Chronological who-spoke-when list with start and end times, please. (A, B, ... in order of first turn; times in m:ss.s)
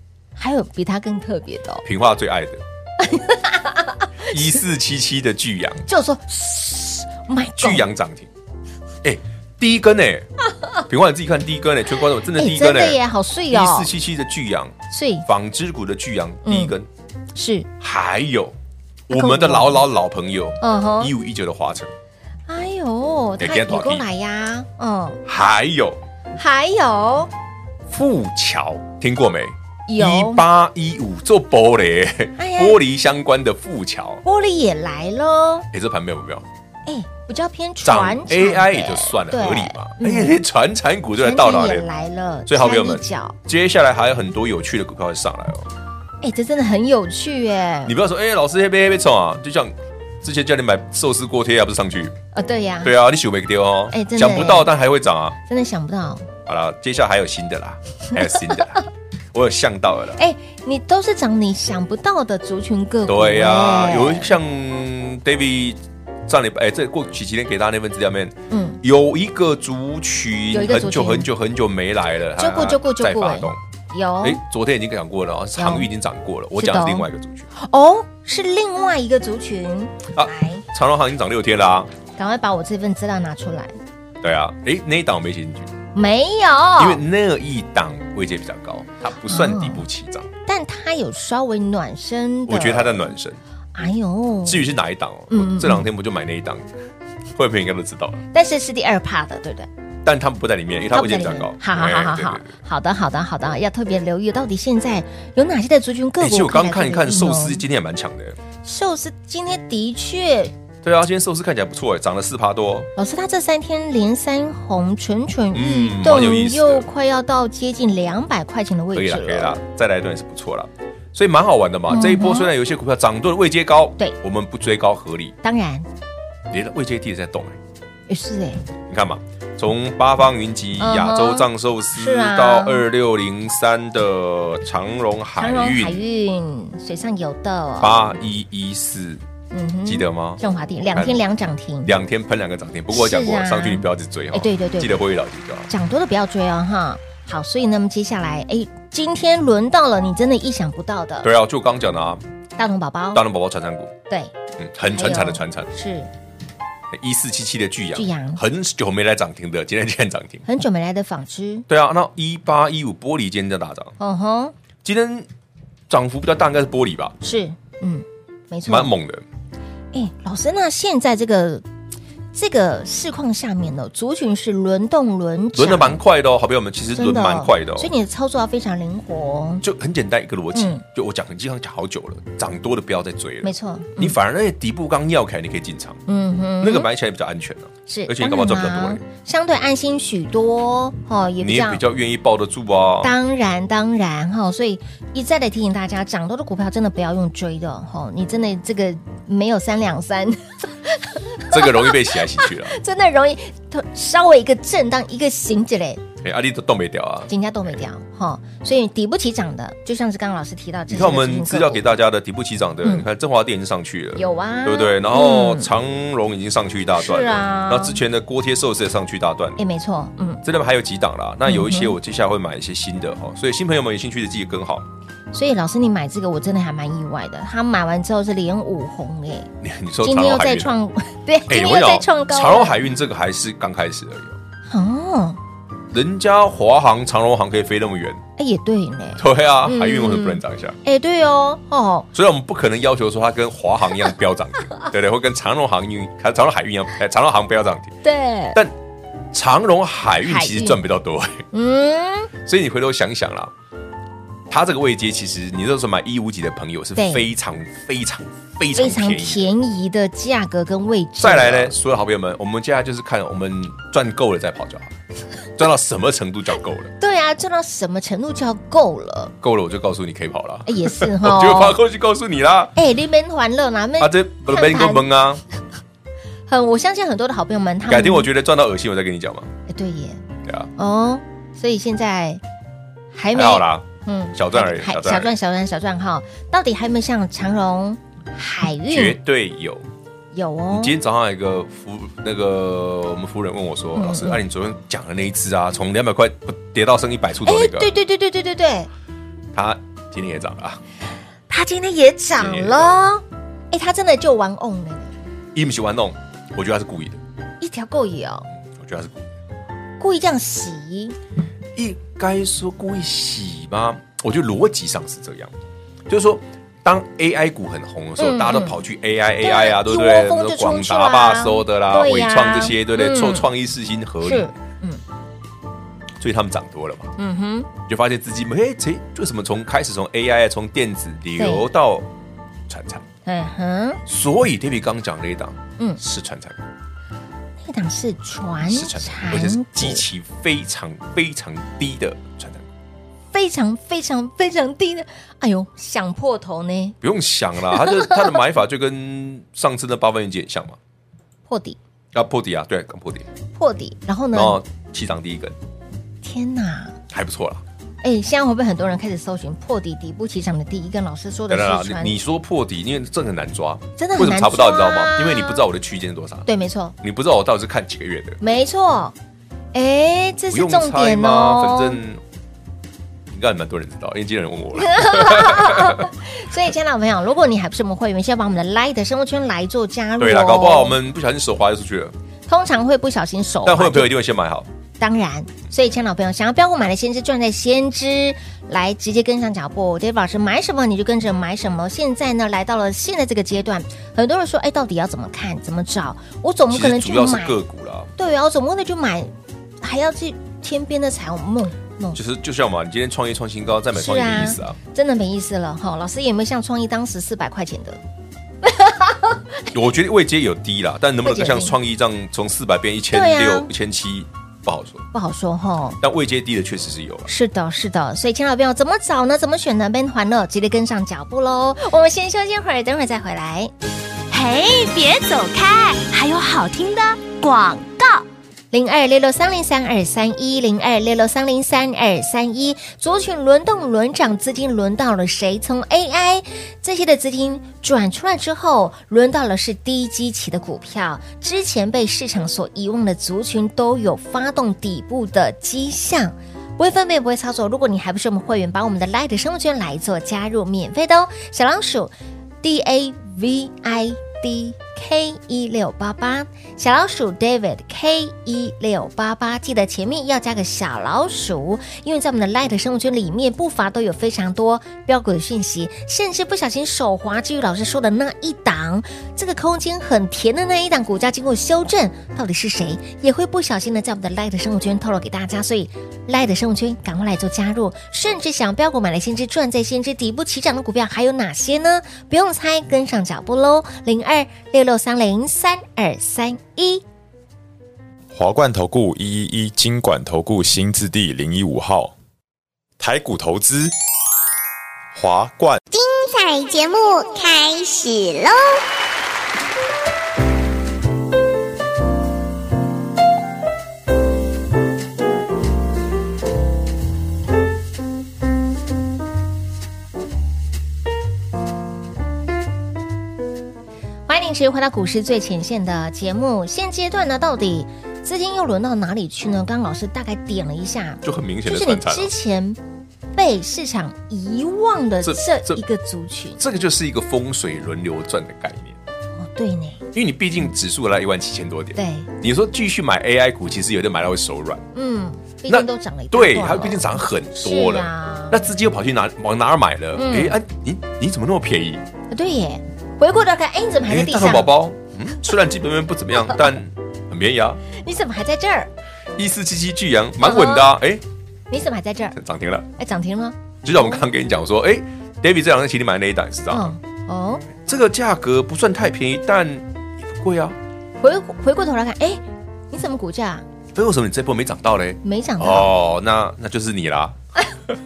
0:00.4-0:01.8 A
0:01.8-0:02.6 B
0:03.0-0:04.4 A
0:04.3-0:05.8 B
0:05.9-0:07.8 A
0:07.6-0:08.3 B
0:09.0-0:10.3 B
0:10.9-0:16.9 B
0:12.3-0:13.9 A
0:14.9-0:15.2 A
0:16.4-0:16.7 A
0:17.3-0:17.7 A
0:17.8-0:18.6 B
0:19.1-0:21.9 B
0:19.1-0:19.8 A
0:20.6-0:21.1 A
0:22.5-0:25.2 A
0:23.4-0:24.0 B
0:25.2-0:26.0 B
0:26.4-0:27.3 A
0:27.9-0:34.2 B
0:29.9-0:30.4 A
0:32.4-0:32.8 A
0:34.2-0:35.7 A
0:35.7-0:36.4 B
0:36.8-0:40.4 A
0:37.8-0:41.8 B
0:41.2-0:43.4 A
0:42.4-0:45.7 B
0:46.2-0:47.9 A
0:47.8-0:52.2 B
0:52.3-0:52.9 A
0:52.8-0:55.4 B
0:53.9-0:54.7 A
0:55.5-0:56.3 A
0:56.4-1:00.2 B
1:00.2-1:04.4 A
1:03.0-1:13.6 B
1:08.5-1:08.8 A
1:10.5-1:11.3 A
1:12.4-1:14.4 A
1:14.2-1:17.5 B
1:15.6-1:15.9 A
1:16.5-1:20.6 A
1:20.1-1:21.9 B
1:22.1-1:23.7 A
1:24.2-1:25.7 B
1:25.9-1:27.0 A
1:26.8-1:30.3 B
1:29.3-1:29.8 A
1:30.4-1:33.1 A
1:32.5-1:33.4 B
1:33.7-1:34.7 A
1:34.4-1:36.7 B
1:35.3-1:35.8 A
1:37.3-1:38.2 B
1:38.3-1:39.7 A
1:40.0-1:42.5 B
1:40.9-1:47.6 A
1:46.2-1:48.4 B
1:48.6-1:50.5 A
1:50.8-1:52.9 B
1:53.0-1:59.6 A
1:55.5-1:56.9 B
1:58.9-2:05.3 B
2:01.9-2:02.5 A
2:05.4-2:05.9 A
2:06.5-2:07.6 B
2:08.1-2:08.6 A
2:08.9-2:16.0 B
2:10.8-2:12.8 A
2:15.4-2:17.9 A
2:17.8-2:19.2 B
2:19.5-2:21.9 A
2:19.8-2:20.4 B
2:20.9-2:21.2 B
2:21.8-2:25.7 B
2:22.9-2:25.0 A
2:25.7-2:31.3 A
2:31.2-2:32.2 B
2:32.6-2:33.2 A
2:33.1-2:33.9 B
2:34.6-2:35.7 B
2:34.9-2:36.1 A
2:36.9-2:40.4 B
2:37.9-2:38.4 A
2:40.4-2:41.7 A
2:41.7-2:43.9 B
2:44.0-2:44.5 A
2:44.8-2:45.3 B
2:45.9-2:47.2 B
2:47.2-2:48.9 A
2:48.6-2:49.2 B
2:49.9-2:51.6 A
2:52.3-2:56.0 A
2:55.6-2:57.9 B
2:57.0-2:59.6 A
2:59.6-3:06.0 B
3:00.5-3:00.8 A
3:03.4-3:04.2 A
3:06.1-3:06.9 A
3:06.6-3:09.0 B
3:07.9-3:11.8 A
3:11.4-3:13.1 B
3:13.0-3:26.0 A
3:21.5-3:22.8 B
3:26.2-3:27.3 B
3:27.3-3:31.8 A
3:30.9-3:39.6 B
3:34.2-3:35.7 A
3:37.0-3:38.0 A
3:39.6-3:40.4 A
3:40.4-3:44.8 B
3:41.4-3:42.0 A
3:45.3-3:49.5 A
3:49.6-3:50.7 B
3:50.0-3:52.7 A
3:51.5-3:54.4 B
3:54.7-3:55.4 A
3:55.9-3:58.2 B
3:58.4-4:02.1 A
3:59.2-4:00.8 B
4:02.1-4:08.0 B
4:08.0-4:08.6 A
4:09.3-4:11.4 B
4:10.2-4:10.8 A
4:11.5-4:12.3 A
4:12.4-4:13.5 B
4:14.5-4:19.5 B
4:17.0-4:17.3 A
4:18.8-4:21.7 A
4:21.2-4:24.9 B
4:25.6-4:26.9 B
4:27.0-4:29.3 A
4:29.4-4:32.7 B
4:30.7-4:31.8 A
4:32.7-4:35.1 A
4:34.0-4:35.4 B
4:36.5-4:38.3 A
4:37.8-4:39.5 B
4:39.7-4:40.2 A
4:40.4-4:40.7 B
4:40.8-4:42.4 A
4:43.1-4:49.2 A
4:43.3-4:45.3 B
4:48.9-4:49.8 B
4:50.3-4:50.9 A
4:50.7-4:57.9 B
4:54.0-4:54.4 A
4:57.4-4:58.9 A
4:59.5-5:00.8 B
5:01.5-5:05.1 A
5:02.4-5:02.9 B
5:05.5-5:07.2 B
5:07.6-5:08.4 A
5:08.8-5:09.2 B
5:10.0-5:11.2 A
5:11.8-5:15.5 B
5:16.1-5:24.5 B
5:18.2-5:18.8 A
5:19.4-5:23.5 A
5:24.2-5:25.0 A
5:26.2-5:27.1 B
5:27.2-5:27.7 A
5:27.8-5:32.1 B
5:31.4-5:31.7 A
5:32.7-5:33.0 B
5:33.2-5:34.0 A
5:34.1-5:36.6 B
5:37.6-5:40.0 A
5:38.6-5:42.6 B
5:43.3-5:47.0 A
5:47.0-5:50.8 B
5:47.7-5:48.2 A
5:51.5-5:51.8 A
5:52.1-5:53.2 B
5:53.6-5:54.6 A
5:54.3-5:55.6 B
5:56.2-5:57.0 A
5:57.1-5:57.6 B
5:58.0-6:02.2 A
6:01.5-6:06.5 B
6:04.0-6:05.6 A
6:06.5-6:06.9 A
6:07.0-6:08.4 B
6:08.4-6:09.1 A
6:09.7-6:12.0 A
6:10.5-6:12.2 B
6:13.3-6:16.1 B
6:14.7-6:21.0 A
6:20.2-6:22.1 B
6:22.5-6:24.1 A
6:23.6-6:24.7 B
6:25.0-6:37.6 A
6:36.7-6:38.1 B
6:38.2-6:42.2 A
6:42.1-6:44.8 B
6:43.9-6:48.0 A
6:48.6-6:49.4 A
6:49.7-6:55.0 B
6:51.2-6:51.8 A
6:53.1-6:53.7 A
6:55.1-6:56.0 A
6:56.0-6:57.3 B
6:57.3-7:03.7 A
7:04.4-7:06.3 C
7:08.7-8:07.0 A
8:08.3-8:12.1 D
8:13.0-8:13.9 D
8:15.1-8:15.8 D
8:15.9-8:18.8 E
8:34.3-8:42.8 A
8:41.2-8:42.3 B
8:43.3-8:46.6 A
8:45.2-8:45.8 B
8:46.6-8:49.0 B
8:49.4-8:50.0 A
8:50.1-8:54.8 B
8:52.0-8:52.3 A
8:54.9-8:58.6 A
8:55.7-9:02.0 B
9:00.1-9:00.6 A
9:02.3-9:04.7 A
9:04.1-9:07.8 B
9:07.9-9:08.9 A
9:09.4-9:11.2 B
9:10.4-9:11.0 A
9:11.7-9:12.4 A
9:12.4-9:12.8 B
9:13.0-9:14.2 A
9:13.8-9:16.9 B
9:16.7-9:17.6 A
9:17.8-9:20.8 B
9:21.2-9:23.6 A
9:23.9-9:27.4 B
9:25.2-9:25.9 A